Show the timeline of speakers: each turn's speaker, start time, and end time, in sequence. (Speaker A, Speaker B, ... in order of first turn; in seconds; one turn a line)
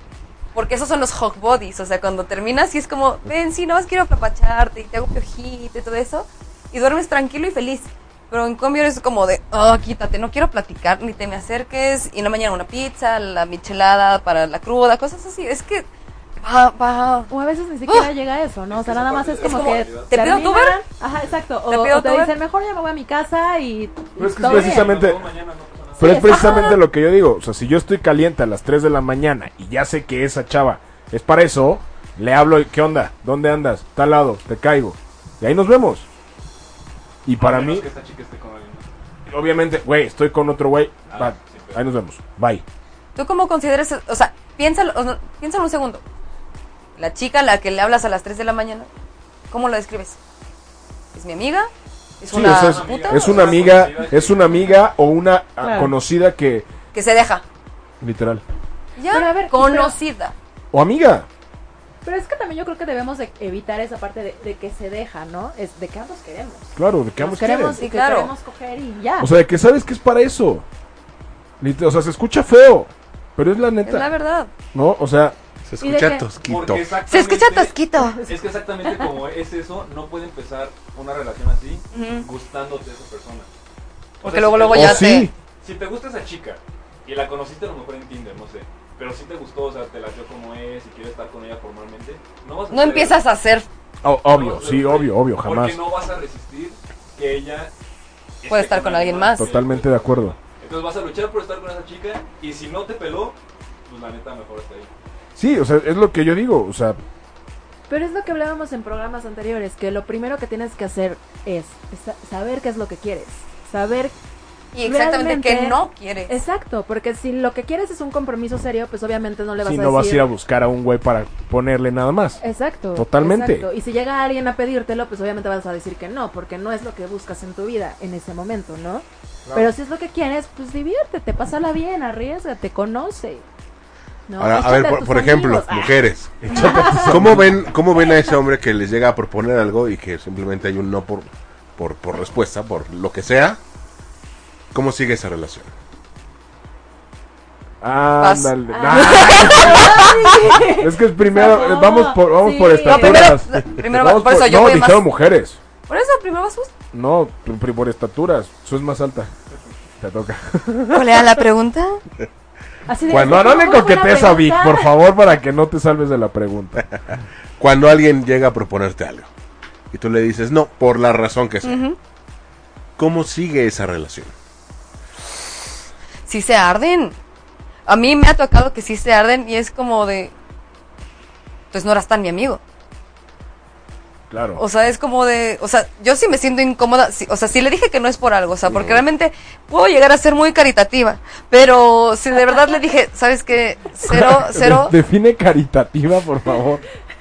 Speaker A: 0.5-15.9
Speaker A: 16.4-17.3
Speaker B: 17.3-25.0
Speaker C: 18.7-20.4
Speaker A: 19.4-20.8
Speaker A: 21.7-22.3
Speaker D: 24.2-25.2
Speaker C: 24.2-26.2
Speaker D: 26.0-36.1
Speaker B: 26.0-26.8
Speaker A: 26.2-26.7
Speaker D: 37.2-37.9
Speaker C: 37.4-38.8
Speaker D: 39.3-42.6
Speaker C: 41.1-41.8
Speaker A: 43.1-46.0
Speaker A: 47.0-48.9
Speaker A: 49.5-50.2
Speaker A: 51.1-53.6
Speaker D: 52.3-56.7
Speaker C: 52.3-54.7
Speaker B: 55.6-55.9
Speaker A: 56.9-57.4
Speaker D: 58.0-58.4
Speaker A: 59.0-60.3
Speaker B: 59.1-59.9
Speaker D: 60.7-61.3
Speaker B: 62.0-69.3
Speaker D: 66.8-67.8
Speaker A: 67.8-68.3
Speaker D: 69.2-70.7
Speaker D: 71.6-74.1
Speaker A: 73.8-74.5
Speaker D: 74.7-75.3
Speaker E: 75.7-76.9
Speaker B: 75.8-76.2
Speaker C: 76.5-83.5
Speaker A: 77.1-78.2
Speaker B: 78.8-79.1
Speaker A: 81.9-82.2
Speaker C: 84.2-93.2
Speaker A: 84.2-85.3
Speaker D: 84.7-85.3
Speaker A: 92.7-93.7
Speaker D: 94.0-95.8
Speaker C: 94.3-97.7
Speaker C: 98.4-104.9
Speaker A: 98.5-99.5
Speaker D: 99.3-100.3
Speaker D: 105.3-107.0
Speaker B: 107.9-114.1
Speaker A: 114.7-116.3
Speaker B: 114.8-120.3
Speaker D: 119.6-122.4
Speaker B: 122.4-133.4
Speaker D: 122.9-123.7
Speaker B: 134.3-136.0
Speaker E: 134.4-143.6
Speaker D: 136.4-137.7
Speaker B: 136.5-137.1
Speaker E: 144.7-145.7
Speaker D: 147.8-150.1
Speaker A: 148.2-150.2
Speaker B: 148.7-153.3
Speaker D: 150.7-155.6
Speaker A: 152.8-155.0
Speaker A: 155.9-156.7
Speaker D: 156.9-159.3
Speaker D: 160.0-161.2
Speaker A: 160.9-162.0
Speaker B: 162.9-164.9
Speaker E: 163.1-163.5
Speaker D: 163.1-166.8
Speaker E: 167.6-169.3
Speaker E: 169.9-171.8
Speaker A: 171.6-172.0
Speaker E: 173.0-174.3
Speaker A: 176.3-177.1
Speaker A: 177.9-180.3
Speaker A: 181.7-182.6
Speaker D: 184.3-184.6
Speaker A: 184.6-194.9
Speaker E: 188.7-189.0
Speaker D: 194.0-196.8